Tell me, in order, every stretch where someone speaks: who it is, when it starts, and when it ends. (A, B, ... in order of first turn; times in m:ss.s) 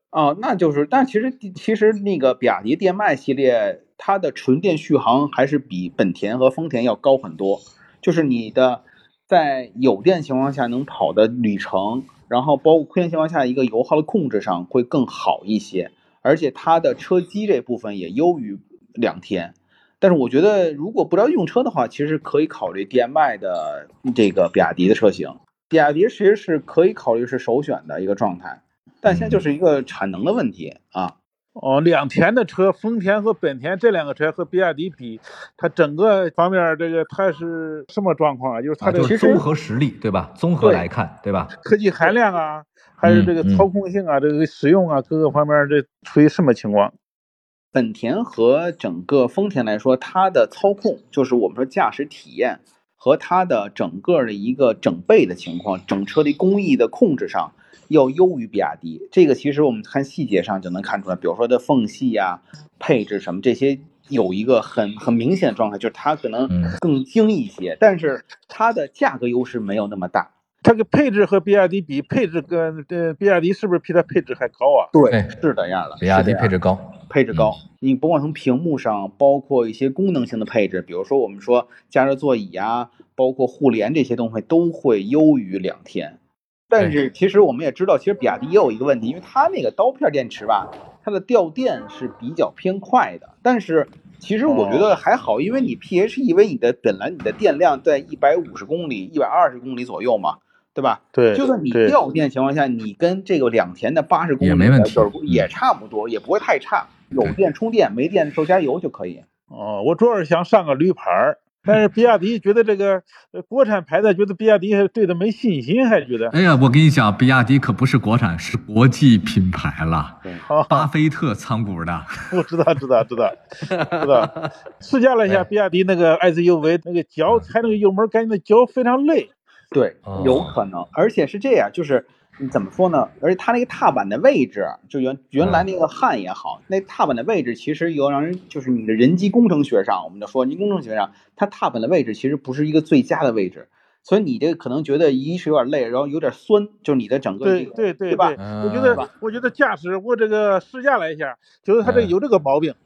0:00.1-0:31.2 A
0:29.1-0:29.4 B
0:31.6-0:39.4 C
0:38.8-0:41.5 B
0:39.0-0:39.4 A
0:40.6-0:40.9 A
0:41.6-0:46.9 C
0:43.0-0:43.7 B
0:47.7-1:10.3 A
1:06.5-1:06.8 B
1:10.6-1:14.9 C
1:14.9-1:16.5 A
1:15.1-1:15.4 B
1:16.0-1:17.6 B
1:17.1-1:26.2 A
1:26.7-1:49.2 A
1:34.5-1:34.9 C
1:41.1-1:42.0 C
1:44.4-1:45.5 B
1:49.5-1:56.3 C
1:56.3-2:02.3 B
2:00.5-2:00.9 C
2:02.3-2:03.4 C
2:03.7-2:04.5 B
2:04.0-2:09.3 C
2:09.7-2:28.4 A
2:10.0-2:10.6 B
2:15.4-2:15.6 B
2:27.4-2:32.8 C
2:28.4-2:29.0 B
2:31.8-2:32.1 B